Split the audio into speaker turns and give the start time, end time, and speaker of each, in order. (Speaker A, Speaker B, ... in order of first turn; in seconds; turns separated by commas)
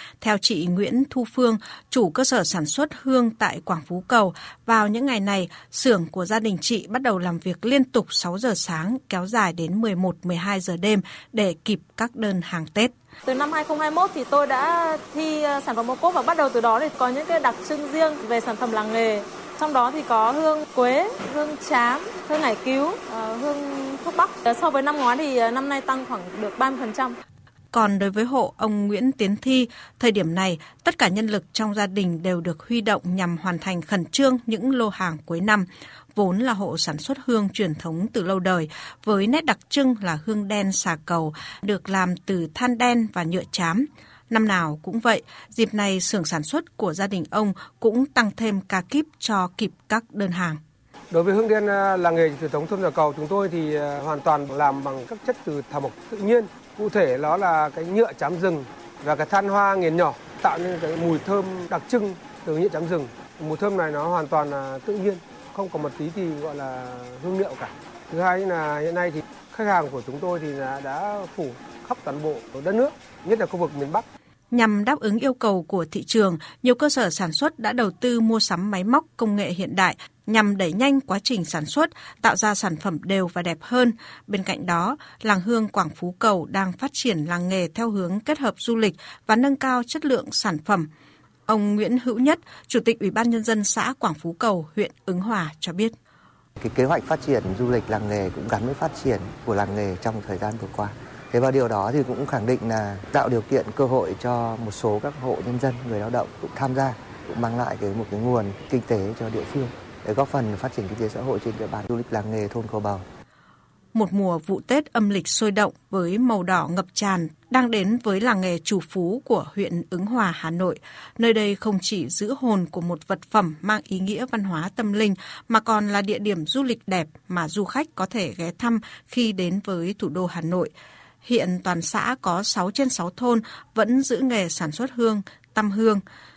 Speaker A: 0.2-12.9, Speaker B: 13.2-27.1, Speaker A: 27.7-50.6, Speaker C: 51.1-74.0, Speaker A: 74.5-90.9, Speaker A: 91.5-95.9, Speaker D: 96.6-113.0, Speaker A: 113.9-130.7, Speaker A: 131.2-136.0